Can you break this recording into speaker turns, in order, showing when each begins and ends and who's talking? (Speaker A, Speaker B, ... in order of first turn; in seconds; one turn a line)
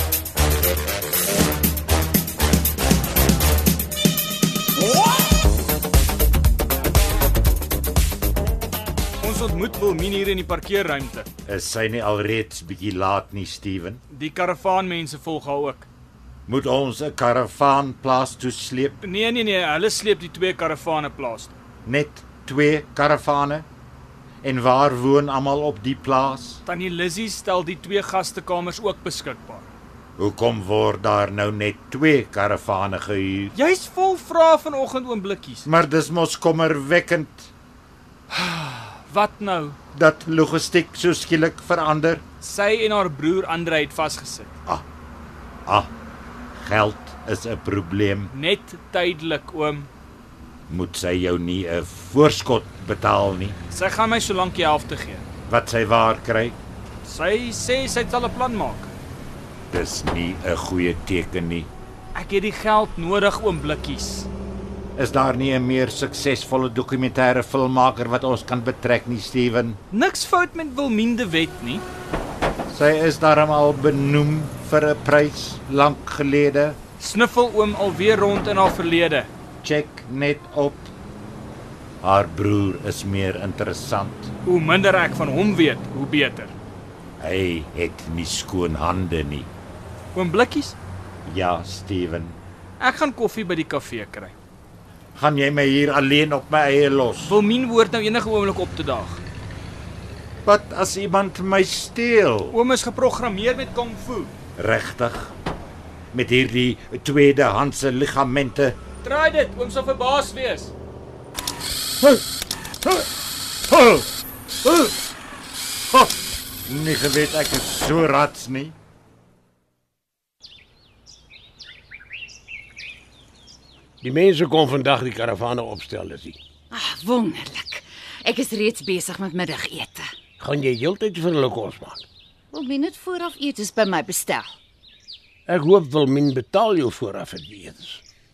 Speaker A: 9.2-11.3
Speaker B: 11.4-14.0
Speaker A: 14.1-15.9
Speaker B: 16.5-19.0
Speaker A: 19.0-21.5
Speaker B: 21.8-23.7
Speaker B: 24.4-26.6
Speaker A: 26.6-29.7
Speaker B: 30.2-33.5
Speaker A: 33.5-35.7
Speaker B: 35.6-37.5
Speaker A: 38.3-39.8
Speaker B: 39.9-42.2
Speaker A: 42.4-44.5
Speaker B: 45.6-45.9
Speaker B: 46.6-48.3
Speaker A: 48.3-49.9
Speaker B: 50.7-53.6
Speaker A: 53.7-55.2
Speaker B: 55.5-56.6
Speaker A: 57.0-58.9
Speaker B: 59.7-61.7
Speaker A: 62.1-64.3
Speaker B: 65.0-69.8
Speaker A: 69.9-71.8
Speaker B: 72.7-76.8
Speaker A: 77.0-79.3
Speaker B: 79.6-80.9
Speaker B: 82.0-84.3
Speaker A: 84.5-86.5
Speaker B: 87.2-89.5
Speaker A: 90.1-90.8
Speaker B: 91.2-92.4
Speaker A: 92.8-94.3
Speaker B: 95.2-97.4
Speaker A: 97.2-99.2
Speaker B: 100.4-102.6
Speaker A: 102.5-104.3
Speaker B: 104.6-105.3
Speaker B: 106.1-108.8
Speaker A: 109.0-110.7
Speaker B: 113.7-114.0
Speaker B: 114.6-114.9
Speaker B: 116.7-118.7
Speaker C: 124.0-126.4
Speaker D: 126.7-130.1
Speaker C: 130.4-132.0
Speaker D: 132.5-134.5
Speaker C: 135.5-138.0